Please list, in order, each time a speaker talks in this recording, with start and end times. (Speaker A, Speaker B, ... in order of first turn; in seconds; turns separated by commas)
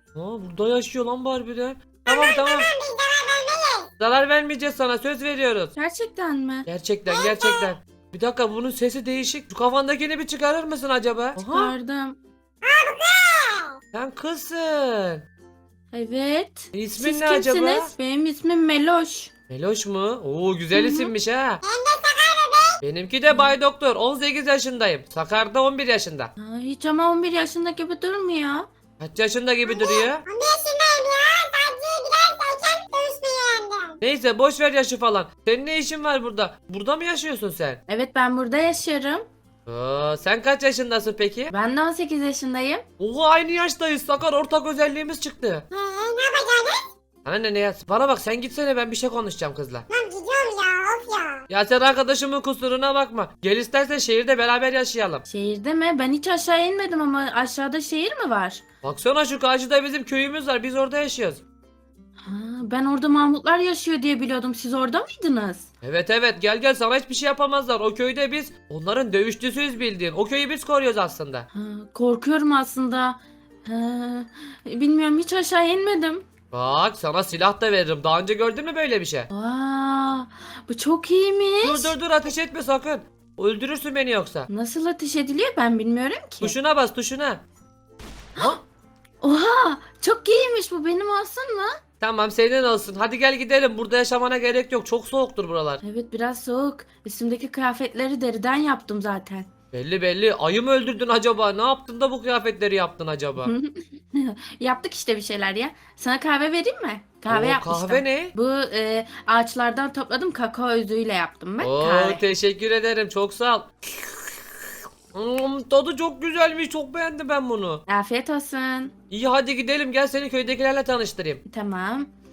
Speaker A: 0.1-2.7, Speaker B: 2.0-3.9, Speaker A: 4.0-5.7, Speaker C: 5.8-6.7, Speaker A: 6.7-11.7, Speaker B: 7.1-7.8, Speaker C: 11.4-12.2, Speaker B: 12.6-13.8, Speaker A: 13.9-15.2, Speaker C: 15.9-19.3, Speaker A: 16.7-17.9, Speaker A: 19.5-21.6, Speaker C: 20.7-21.1, Speaker B: 21.6-22.8, Speaker A: 22.8-26.3, Speaker C: 23.3-23.6, Speaker C: 26.4-28.7, Speaker A: 29.0-30.2, Speaker B: 29.7-34.0, Speaker A: 34.0-37.8, Speaker C: 37.9-39.3, Speaker A: 39.7-41.5, Speaker C: 41.5-42.8, Speaker A: 43.0-45.6, Speaker B: 45.7-46.8, Speaker A: 47.2-49.9, Speaker B: 49.9-51.4, Speaker A: 51.5-55.2, Speaker C: 55.3-58.6, Speaker A: 58.8-61.4, Speaker C: 62.2-65.7, Speaker A: 65.8-71.5, Speaker C: 71.5-76.2, Speaker A: 76.5-79.3, Speaker C: 79.3-81.9, Speaker A: 81.6-84.5, Speaker C: 84.5-86.5, Speaker A: 86.4-87.4, Speaker C: 89.2-91.7, Speaker A: 92.0-95.8, Speaker C: 95.8-99.5, Speaker A: 99.7-103.5, Speaker C: 103.4-112.2, Speaker A: 107.3-108.3, Speaker A: 111.6-113.7, Speaker A: 115.1-117.8, Speaker C: 117.9-118.9, Speaker A: 119.1-121.4, Speaker C: 121.5-122.1